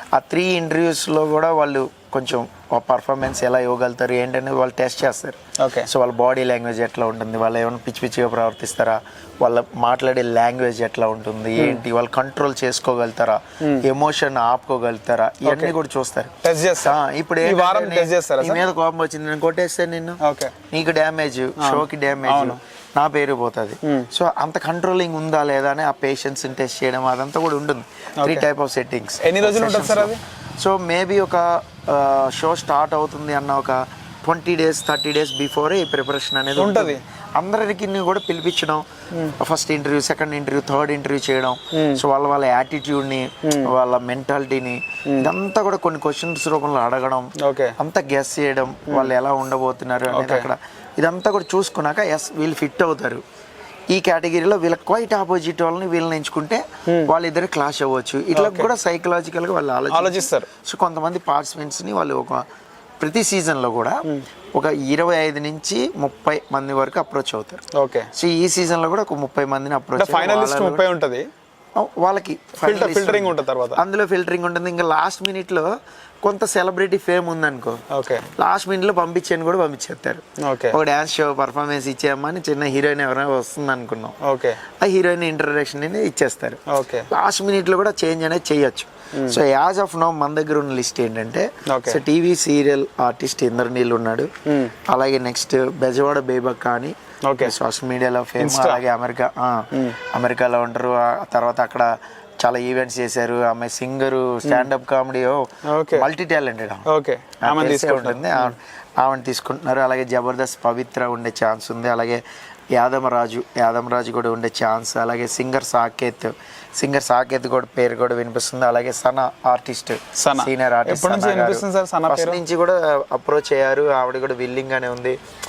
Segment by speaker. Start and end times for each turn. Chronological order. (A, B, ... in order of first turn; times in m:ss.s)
0:00.1-0:20.2 A
0:05.6-0:05.9 B
0:11.6-0:11.8 B
0:13.6-0:13.9 B
0:15.4-0:15.8 B
0:16.4-0:18.6 B
0:20.2-0:20.6 B
0:20.7-0:38.9 A
0:21.6-0:22.6 B
0:23.8-0:24.1 B
0:29.2-0:30.2 B
0:36.6-0:37.0 B
0:39.4-0:53.2 A
0:41.7-0:42.0 B
0:43.4-0:43.7 B
0:47.4-0:47.8 B
0:48.9-0:49.1 B
0:50.1-0:50.5 B
0:53.9-1:02.5 A
0:56.9-0:57.1 B
0:58.3-0:58.7 B
0:59.9-1:00.5 B
1:03.0-1:07.6 A
1:07.7-1:08.1 B
1:08.1-1:10.8 A
1:10.0-1:11.3 B
1:11.8-1:17.8 A
1:12.6-1:13.8 B
1:17.9-1:18.3 B
1:18.4-1:24.1 A
1:20.4-1:20.8 B
1:24.2-1:24.6 B
1:24.8-1:34.3 A
1:26.7-1:27.1 B
1:29.1-1:29.4 B
1:31.7-1:32.0 B
1:34.4-1:34.7 B
1:34.9-1:46.9 A
1:37.2-1:37.6 B
1:38.4-1:38.8 B
1:39.7-1:40.0 B
1:45.7-1:46.1 B
1:46.9-1:48.5 B
1:47.4-1:52.2 A
1:52.7-2:05.2 A
2:00.2-2:02.4 B